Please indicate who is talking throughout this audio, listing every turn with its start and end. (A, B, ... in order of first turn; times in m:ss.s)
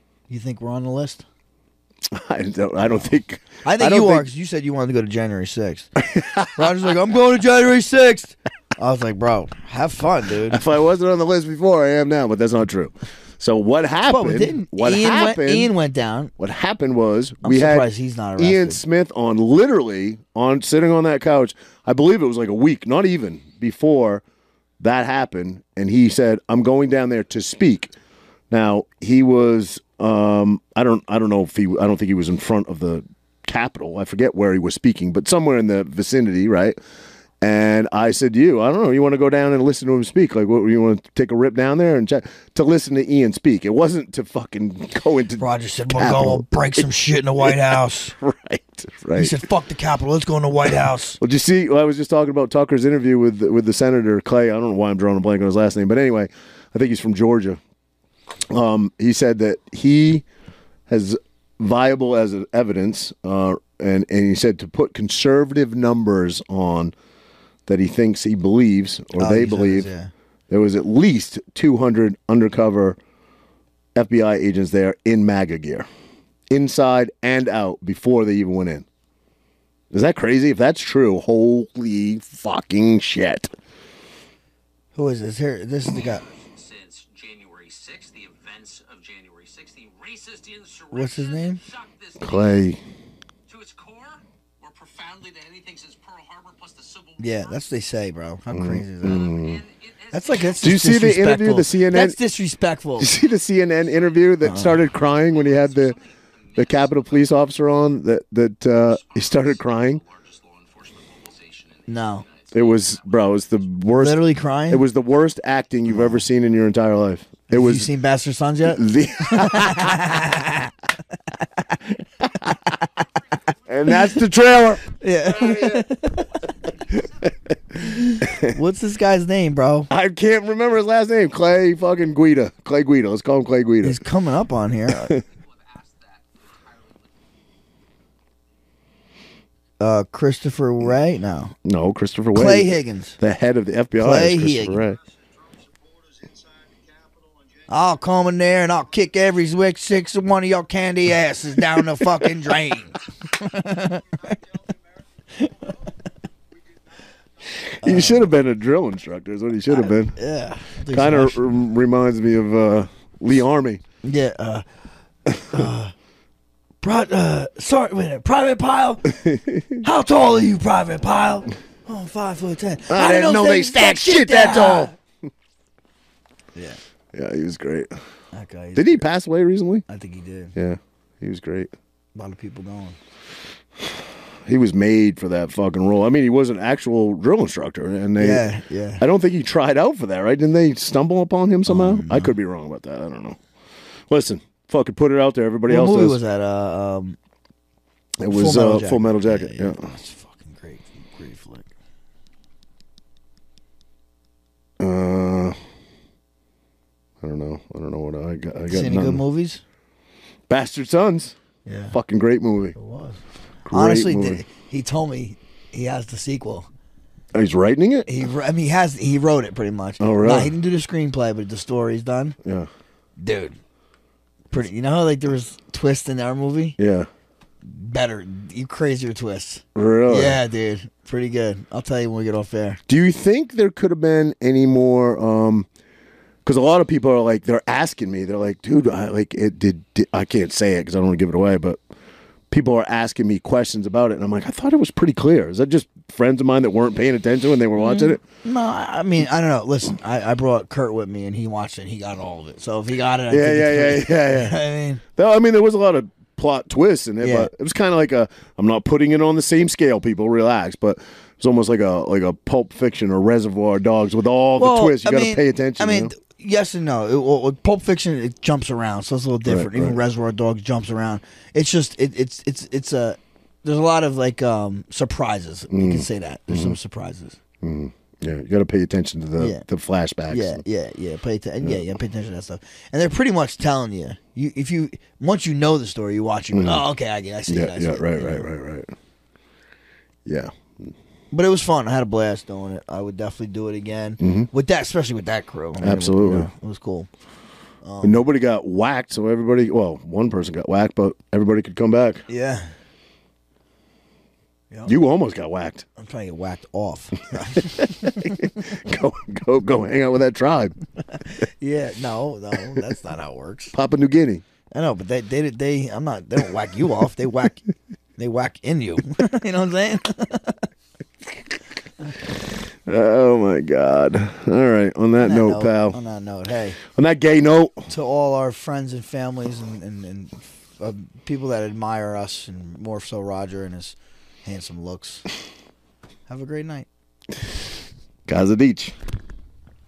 0:00.3-0:01.2 A
0:02.1-0:04.3 B
0:03.6-0:06.0 A
0:06.0-0:06.8 B
0:06.5-0:10.6 A
0:10.4-0:15.7 B
0:14.1-0:16.3 A
0:16.4-0:24.2 B
0:17.4-0:18.8 A
0:24.8-0:27.9 B
0:28.5-0:36.8 B
0:37.4-0:46.8 B
0:45.4-0:48.2 A
0:47.4-0:49.4 B
0:49.2-0:51.2 A
0:51.2-0:57.6 B
0:58.5-1:00.2 B
1:00.9-1:06.9 B
1:07.7-1:09.9 B
1:09.2-1:10.1 A
1:10.5-1:13.0 B
1:14.0-1:15.9 B
1:16.5-1:18.8 B
1:19.9-1:23.5 B
1:25.0-1:26.3 A
1:26.0-1:32.6 C
1:30.9-1:31.6 A
1:32.2-1:32.8 B
1:33.5-1:37.9 C
1:37.2-1:39.2 A
1:38.5-1:39.6 B
1:39.0-1:40.9 C
1:40.1-1:43.1 A
1:40.6-1:42.2 B
1:43.0-1:46.0 B
1:43.1-1:47.9 C
1:44.4-1:44.8 A
1:46.6-1:50.0 B
1:48.8-1:53.8 C
1:51.9-1:52.2 A
1:52.5-1:57.9 B
1:53.9-1:54.8 A
1:55.9-1:56.2 A
1:57.5-2:00.7 A
1:58.7-2:00.0 B
1:59.6-2:00.0 C
2:03.2-2:04.8 C
2:03.7-2:05.9 B
2:03.9-2:04.2 A
2:05.0-2:06.3 A
2:06.4-2:07.3 C
2:07.0-2:07.5 B
2:07.8-2:09.9 A
2:08.2-2:08.6 B
2:09.9-2:14.0 B
2:13.8-2:15.2 A
2:14.9-2:15.2 B
2:15.3-2:17.3 C
2:19.8-2:21.5 A
2:21.6-2:25.0 B
2:22.3-2:23.2 A
2:24.0-2:24.8 A
2:27.7-2:34.4 A
2:35.3-2:35.9 A
2:37.5-2:40.2 B
2:37.8-2:38.3 A
2:39.7-2:41.5 A
2:40.9-2:43.8 B
2:44.0-2:44.7 A
2:45.3-2:45.6 B
2:45.5-2:45.9 A
2:46.8-2:49.2 A
2:49.1-2:49.8 B
2:49.8-2:54.9 A
2:52.9-2:54.9 B
2:56.6-2:56.8 A
2:57.1-2:57.9 B
2:58.3-2:58.9 A
2:58.8-2:59.8 B
2:59.9-3:00.6 A
3:00.6-3:01.7 B
3:02.2-3:03.0 A
3:04.5-3:08.5 B
3:08.2-3:09.0 A
3:09.0-3:13.4 B
3:11.7-3:12.3 A
3:14.1-3:16.2 B
3:15.7-3:17.2 A
3:18.2-3:19.9 B
3:18.2-3:21.7 A
3:24.8-3:25.6 B
3:27.2-3:29.2 B
3:28.7-3:29.6 A
3:30.5-3:31.4 B
3:31.6-3:32.0 A
3:31.9-3:32.8 B
3:32.8-3:36.7 A
3:33.6-3:34.4 B
3:37.3-3:38.1 B
3:38.1-3:42.4 A
3:40.0-3:40.5 B
3:42.4-3:42.7 B
3:43.2-3:43.6 A
3:44.5-3:46.8 A
3:46.8-3:47.1 B
3:47.6-3:52.8 A
3:49.8-3:50.4 B
3:52.9-3:55.7 B
3:56.4-4:01.8 B
4:02.5-4:08.2 B
4:07.8-4:15.0 A
4:13.3-4:14.6 B
4:15.2-4:26.1 B
4:17.2-4:17.5 A
4:24.6-4:37.4 A
4:29.5-4:30.0 B
4:35.7-4:36.8 B
4:37.6-4:40.6 B
4:39.4-4:39.6 A
4:40.3-4:48.5 A
4:41.6-4:41.9 B
4:46.5-4:46.8 B
4:47.5-4:48.9 B
4:50.3-4:50.9 B
4:51.3-4:57.1 A
4:54.2-4:54.5 B
4:55.8-4:56.5 B
4:57.8-4:58.2 A
4:58.0-5:02.2 B
5:02.3-5:02.7 A
5:04.9-5:05.8 B
5:06.0-5:08.5 A
5:07.6-5:10.8 B
5:11.2-5:13.7 A
5:13.7-5:14.4 B
5:14.7-5:17.6 A
5:18.2-5:20.7 A
5:22.8-5:26.0 B
5:25.2-5:26.8 A
5:26.8-5:27.9 B
5:27.9-5:35.2 A
5:36.3-5:36.9 A
5:38.3-5:38.9 B